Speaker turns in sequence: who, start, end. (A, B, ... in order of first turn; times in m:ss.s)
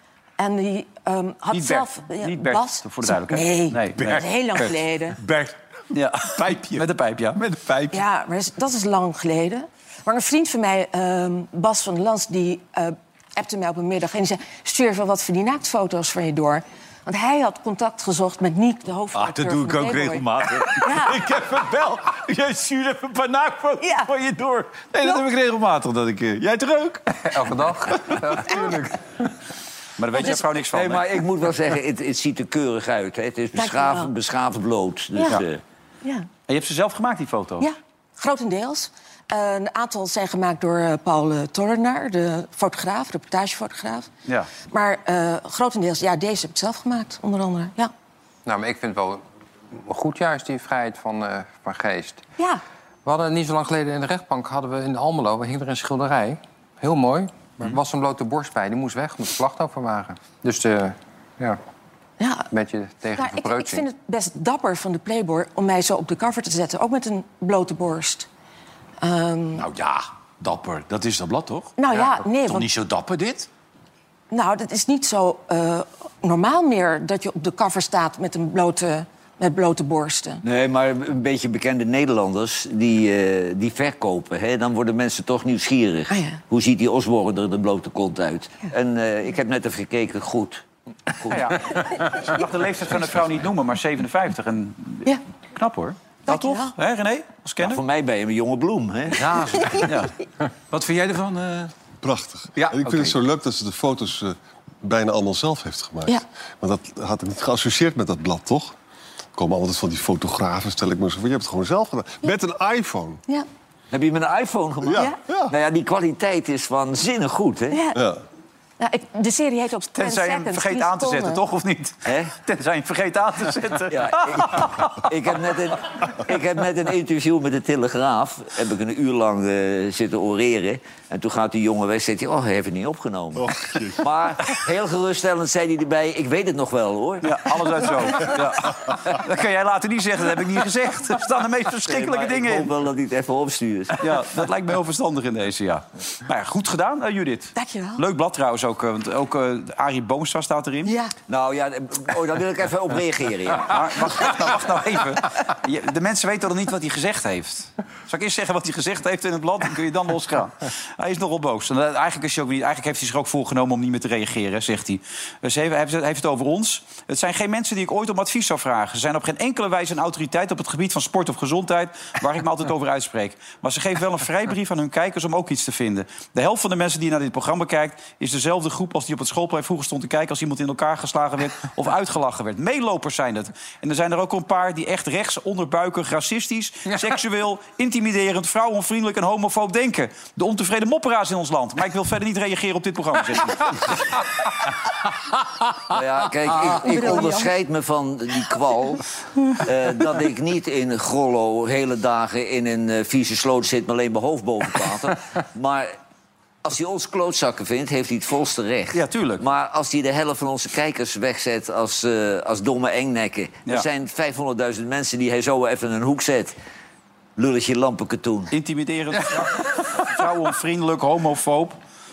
0:00.4-0:05.2 A
0:01.5-0:04.2 B
0:03.9-0:05.6 C
0:05.9-0:07.4 B
0:06.3-0:06.8 C
0:07.4-0:08.0 C
0:07.9-0:21.2 A
0:19.1-0:27.4 C
0:23.8-0:24.1 A
0:27.3-0:28.9 D
0:27.9-0:28.8 C
0:30.0-0:31.2 B
0:30.2-0:35.6 E
0:33.5-0:34.1 A
0:35.1-0:35.4 A
0:36.5-0:37.7 B
0:37.6-0:44.1 A
0:44.7-0:47.9 A
0:48.4-0:49.2 D
0:49.8-0:52.2 D
0:53.0-1:01.6 D
1:02.2-1:02.5 A
1:02.5-1:03.8 D
1:03.2-1:08.3 A
1:09.0-1:09.6 A
1:09.6-1:13.5 C
1:11.8-1:12.7 A
1:14.3-1:20.4 A
1:20.4-1:30.6 E
1:26.1-1:26.4 A
1:31.2-1:31.8 E
1:31.3-1:37.8 B
1:36.3-1:36.7 A
1:37.6-1:39.6 E
1:39.1-1:39.9 C
1:39.8-1:40.1 B
1:40.7-1:41.7 C
1:42.0-1:48.7 F
1:42.6-1:43.1 C
1:49.3-1:53.2 F
1:53.9-1:57.8 E
1:54.8-1:55.5 F
1:57.7-1:58.0 A
1:57.9-1:58.2 F
1:58.8-2:01.4 A
1:59.9-2:05.1 B
2:02.0-2:02.3 E
2:03.9-2:18.4 E
2:13.4-2:14.1 F
2:17.2-2:22.7 B
2:21.8-2:24.2 E
2:24.0-2:30.9 B
2:27.5-2:28.0 A
2:30.8-2:31.1 A
2:31.3-2:34.3 E
2:33.7-3:14.0 B
3:15.9-3:25.9 E
3:16.8-3:17.5 A
3:26.6-3:36.5 E
3:28.9-3:29.4 B
3:37.4-3:38.5 E
3:38.5-3:41.8 B